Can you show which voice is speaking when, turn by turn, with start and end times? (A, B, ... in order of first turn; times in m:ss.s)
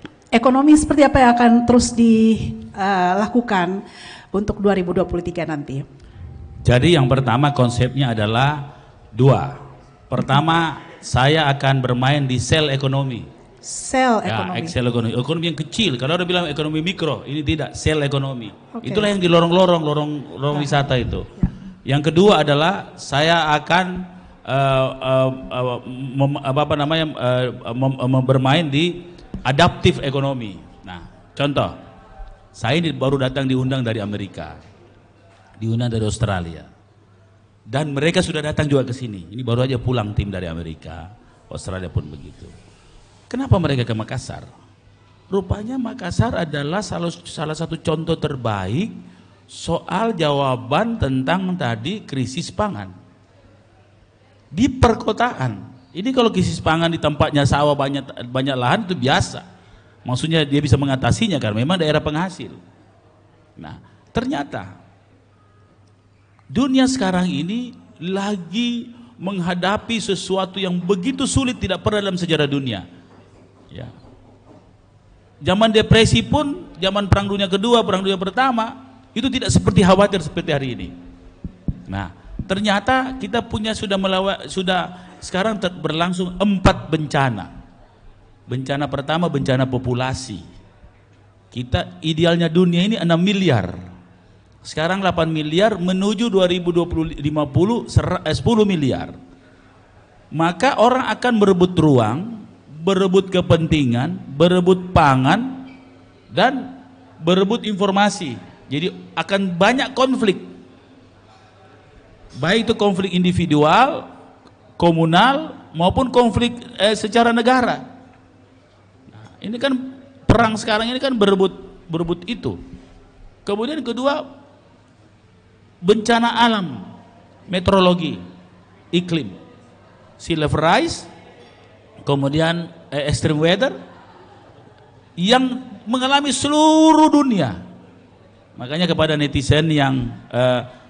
0:00.3-0:03.8 A
0:04.3-0:05.8 A
0:06.6-0:13.3 B
0:13.6-0:14.7 A
0:14.3-0:21.3 B
0:18.8-0:19.1 A
0:20.5-0:20.8 A
0:21.9-0:31.8 B
0:32.6-0:34.6 B
0:35.6-0:36.7 B
0:37.7-0:42.6 B
0:43.3-0:44.5 B
0:45.3-0:49.0 B
0:49.5-0:52.9 B
0:54.5-0:59.5 B
1:00.0-1:02.6 B
1:03.6-1:04.8 B
1:06.5-1:12.9 B
1:15.4-1:20.9 B
1:21.9-1:27.5 B
1:28.5-1:30.4 B
1:31.5-1:33.8 B
1:34.6-1:39.2 B
1:40.3-1:45.7 B
1:46.3-1:50.5 B
1:52.4-1:54.1 B
1:54.8-1:57.8 B
1:59.1-2:02.6 B
2:03.5-2:04.3 B
2:05.8-2:06.9 B
2:07.5-2:08.2 B
2:08.9-2:09.4 B
2:10.2-2:11.1 B
2:12.0-2:13.8 B
2:15.2-2:17.6 B
2:18.6-2:20.7 B